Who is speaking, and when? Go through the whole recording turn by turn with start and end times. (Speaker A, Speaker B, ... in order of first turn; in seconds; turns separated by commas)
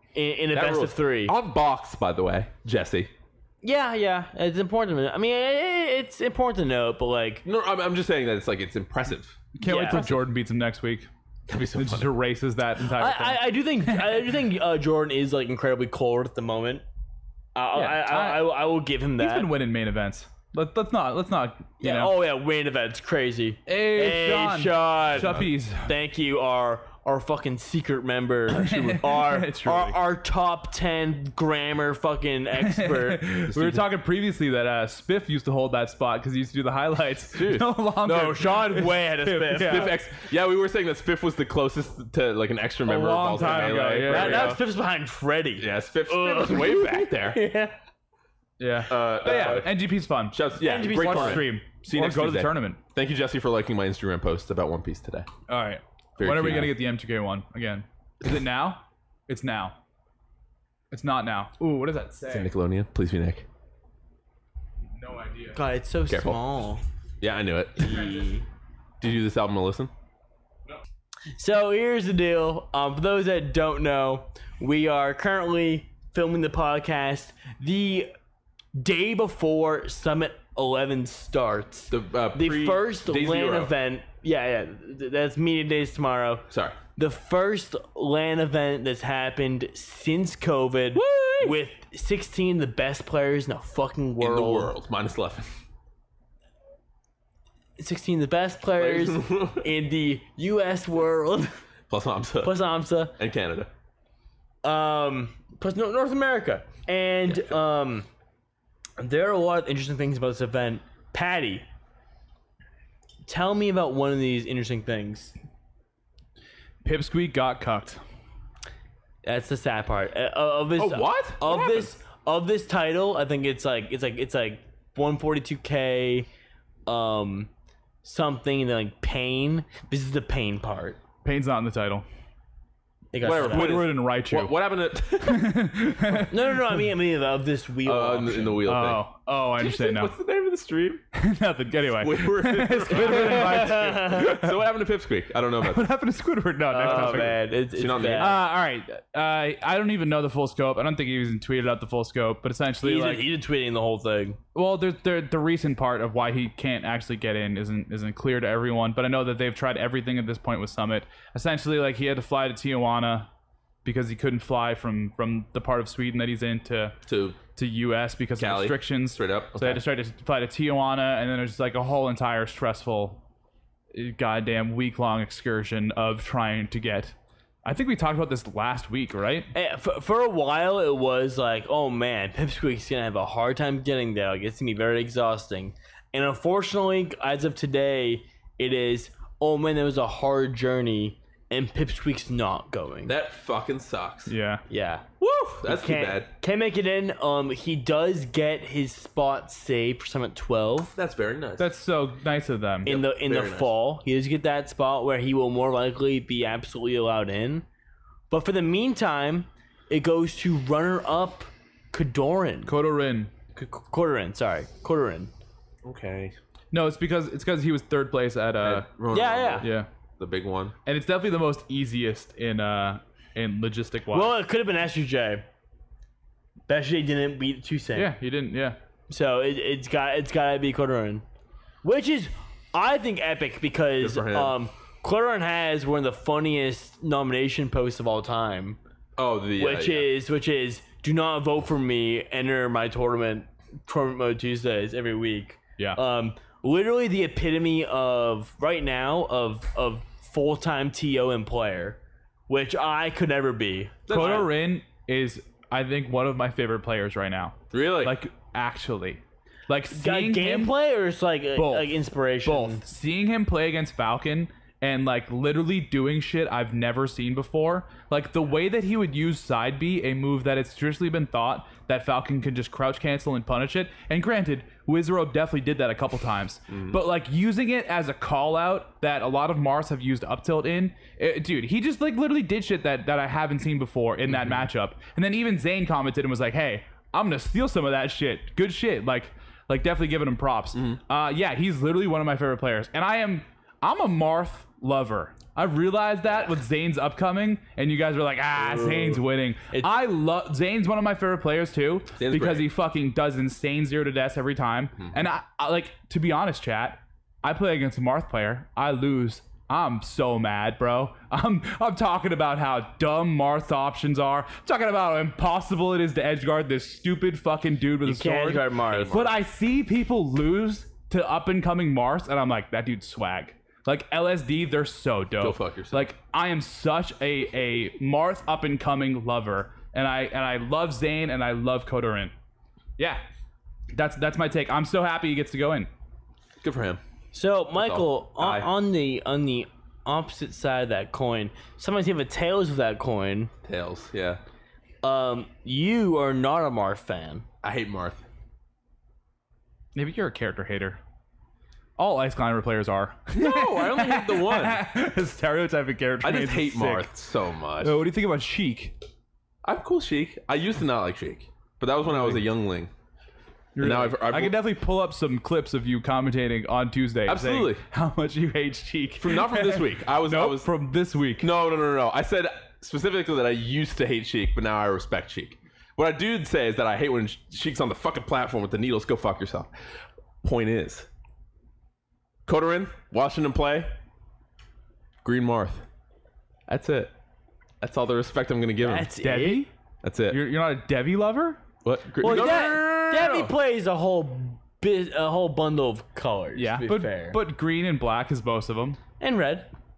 Speaker A: 0.1-1.4, Speaker B: 0.5-3.1, Speaker A: 3.6-7.4, Speaker B: 7.5-10.2, Speaker C: 9.6-11.1, Speaker A: 9.6-10.1, Speaker B: 11.5-12.1, Speaker C: 11.8-14.3, Speaker A: 12.9-16.8, Speaker A: 17.6-19.5, Speaker C: 17.7-18.6, Speaker C: 19.2-22.1, Speaker A: 21.8-33.2, Speaker C: 23.7-25.9, Speaker C: 28.5-30.0, Speaker C: 32.6-40.0, Speaker B: 33.5-33.9, Speaker B: 37.3-37.7, Speaker A: 38.0-40.0, Speaker B: 39.5-44.6, Speaker C: 42.9-44.6, Speaker A: 43.4-47.8, Speaker B: 45.6-47.4, Speaker C: 48.6-52.8, Speaker B: 48.9-49.7, Speaker A: 49.2-49.6, Speaker B: 50.3-55.3, Speaker A: 50.6-51.5, Speaker C: 55.5-59.8, Speaker B: 56.2-56.7, Speaker C: 60.9-62.5, Speaker B: 62.3-63.5, Speaker C: 65.0-65.6, Speaker A: 65.5-66.8, Speaker B: 66.1-66.4, Speaker B: 67.2-68.2, Speaker A: 67.8-68.5, Speaker B: 69.0-69.9, Speaker A: 71.4-78.1, Speaker A: 78.8-94.7, Speaker B: 81.9-83.7, Speaker B: 86.5-86.8, Speaker B: 91.0-91.6, Speaker B: 94.2-95.5, Speaker A: 97.8-101.6, Speaker B: 98.8-99.7, Speaker B: 101.9-102.6, Speaker A: 102.4-103.2, Speaker B: 103.2-103.7, Speaker A: 104.6-108.1, Speaker B: 107.3-107.5, Speaker A: 109.0-111.7, Speaker A: 113.3-115.4, Speaker C: 116.8-118.0, Speaker A: 119.2-126.3, Speaker B: 120.8-121.9, Speaker A: 126.9-127.5, Speaker A: 128.0-131.0, Speaker C: 131.2-132.1, Speaker A: 133.1-133.8, Speaker B: 133.2-135.6, Speaker C: 133.3-134.6, Speaker C: 135.2-136.9, Speaker A: 136.3-138.7, Speaker B: 137.8-139.0, Speaker C: 138.7-140.1, Speaker B: 139.6-141.0, Speaker C: 141.1-144.6, Speaker B: 142.0-145.9, Speaker A: 142.9-144.4, Speaker C: 145.6-147.4, Speaker A: 146.7-148.4, Speaker B: 146.8-148.4, Speaker C: 148.2-153.2, Speaker A: 152.8-154.4, Speaker C: 154.6-163.3, Speaker C: 163.8-167.0, Speaker B: 167.1-167.4, Speaker C: 167.5-173.2, Speaker B: 168.4-169.8, Speaker C: 173.9-179.5, Speaker A: 179.5-193.2, Speaker B: 193.1-194.3, Speaker C: 194.3-194.6, Speaker A: 194.7-195.1, Speaker B: 195.2-196.3, Speaker A: 195.7-200.9, Speaker B: 200.9-201.7, Speaker C: 201.6-203.0, Speaker A: 202.8-207.7, Speaker B: 202.9-203.8, Speaker A: 208.3-212.7, Speaker C: 212.7-213.3, Speaker A: 213.5-215.3, Speaker B: 215.8-216.3, Speaker C: 216.7-218.9, Speaker B: 218.6-219.7, Speaker A: 219.1-219.7, Speaker C: 219.6-219.9, Speaker B: 220.2-220.8, Speaker C: 220.9-224.4, Speaker A: 224.1-225.4, Speaker A: 226.7-228.1, Speaker C: 227.9-228.8, Speaker A: 229.1-231.2, Speaker A: 231.8-238.8, Speaker B: 234.0-234.6, Speaker B: 239.2-240.1, Speaker A: 239.6-254.5, Speaker B: 254.1-254.5, Speaker C: 254.1-260.8, Speaker B: 257.7-258.2, Speaker A: 259.9-262.8, Speaker C: 261.6-332.3, Speaker B: 276.7-277.0, Speaker B: 284.3-284.7, Speaker B: 290.7-291.0, Speaker A: 298.6-299.2, Speaker B: 302.2-302.7, Speaker A: 318.0-319.2, Speaker B: 318.9-319.4, Speaker B: 325.4-326.1, Speaker C: 333.9-335.9, Speaker B: 336.6-337.0, Speaker A: 337.3-343.5, Speaker B: 337.8-338.7, Speaker B: 343.6-344.4, Speaker A: 345.0-347.4, Speaker B: 347.6-348.2, Speaker C: 349.9-351.0, Speaker C: 352.0-357.1, Speaker B: 353.3-354.8, Speaker B: 356.2-358.0, Speaker C: 357.8-359.0, Speaker B: 359.6-362.9, Speaker C: 362.1-362.4, Speaker C: 363.8-371.5, Speaker B: 363.8-364.6, Speaker B: 367.3-367.8, Speaker B: 369.2-370.7, Speaker B: 371.4-379.7, Speaker B: 380.4-381.1, Speaker B: 382.5-383.9, Speaker B: 385.2-385.9, Speaker B: 386.7-387.1, Speaker B: 387.8-389.1, Speaker A: 388.8-389.6, Speaker C: 389.2-389.7, Speaker B: 390.0-390.4, Speaker C: 390.3-391.6, Speaker B: 391.8-393.5, Speaker A: 392.2-397.4, Speaker C: 396.6-399.0, Speaker A: 399.2-399.7